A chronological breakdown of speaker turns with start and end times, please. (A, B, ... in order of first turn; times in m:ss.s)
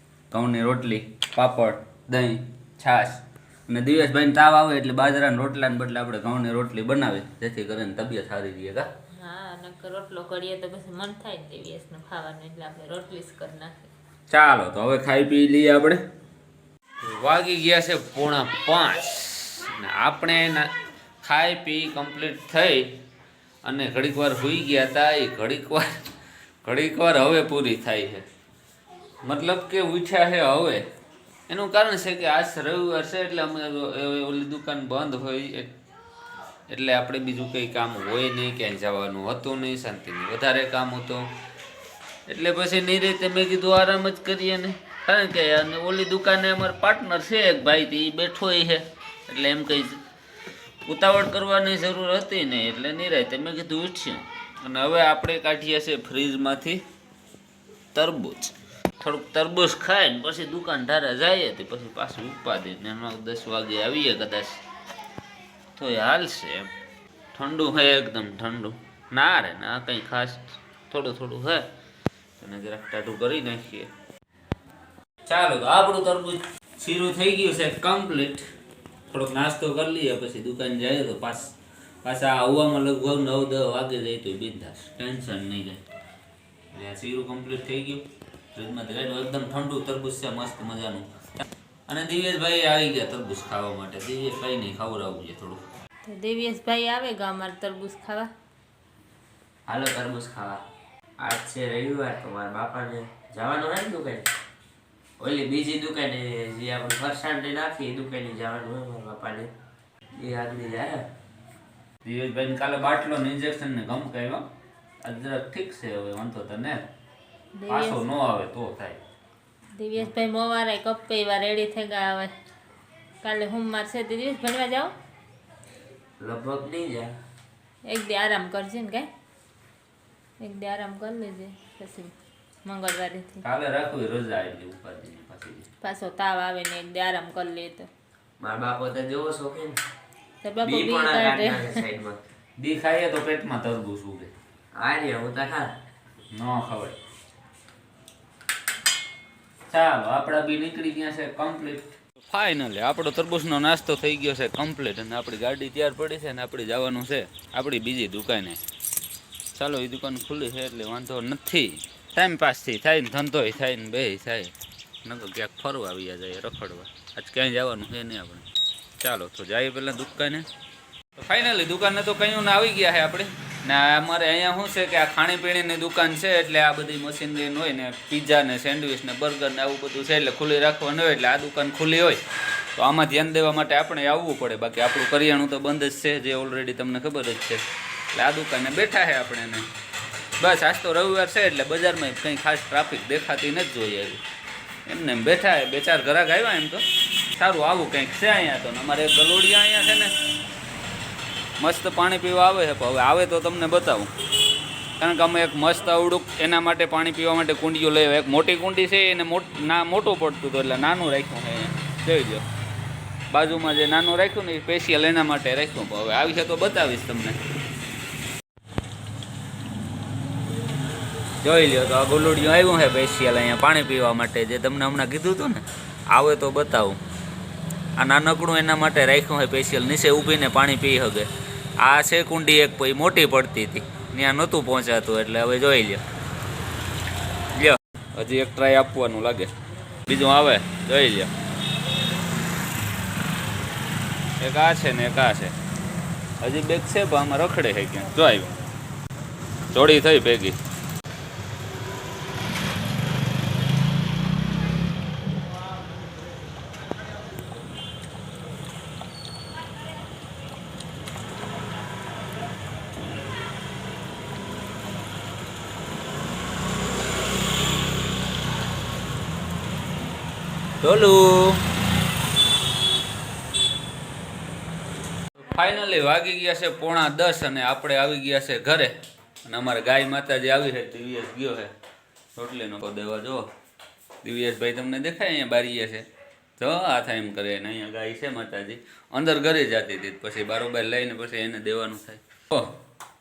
0:00.3-0:08.9 A
0:09.1-0:13.9 B
0:14.3-0:16.0 A
0:17.0-0:20.7 A
0:21.2-0:22.9 A
0:23.6-0:26.1 A
0:26.6-0:28.2 A
0:29.2-0:30.8 A
0:31.5-0:35.8 A
0:36.7-0:41.3 A
0:42.3-0:50.0 A
0:50.8-0:56.8 A
0:57.9-1:04.6 A
1:05.8-1:06.7 A
1:07.3-1:11.7 A
1:12.4-1:13.9 A
1:15.3-1:18.4 A
1:19.1-1:25.8 A
1:26.7-1:35.6 A
1:36.1-1:38.3 B
1:39.7-1:40.6 C
1:41.2-1:44.3 C
1:45.2-1:49.5 C
1:50.1-1:51.0 C
1:52.0-1:54.5 A
1:55.0-1:56.8 A
1:57.6-1:58.0 B
1:57.7-1:59.0 A
1:59.7-2:02.3 B
2:03.2-2:04.9 B
2:06.2-2:07.2 C
2:07.8-2:09.1 B
2:10.4-2:13.4 B
2:13.4-2:15.6 A
2:15.8-2:17.9 B
2:18.4-2:19.8 C
2:20.4-2:21.8 B
2:20.6-2:22.2 C
2:22.6-2:24.3 A
2:24.7-2:25.7 C
2:26.3-2:27.0 A
2:29.7-2:38.6 A
2:39.5-2:48.4 A
2:49.0-2:50.5 A
2:51.2-3:02.2 A
3:02.8-3:07.6 A
3:08.1-3:09.7 A
3:10.4-3:14.2 A
3:14.8-3:20.1 A
3:21.6-3:24.1 A
3:25.0-3:32.4 A
3:33.3-3:37.4 A
3:41.4-3:47.0 A
3:48.0-3:51.3 A
3:51.8-3:56.0 A
3:57.5-3:59.5 A
4:00.0-4:01.3 A
4:04.4-4:05.5 A
4:06.4-4:08.6 A
4:09.7-4:10.6 A
4:30.8-4:31.6 A
4:35.4-4:41.7 A
4:42.4-4:43.5 A
4:44.2-4:46.0 A
4:46.6-4:52.8 A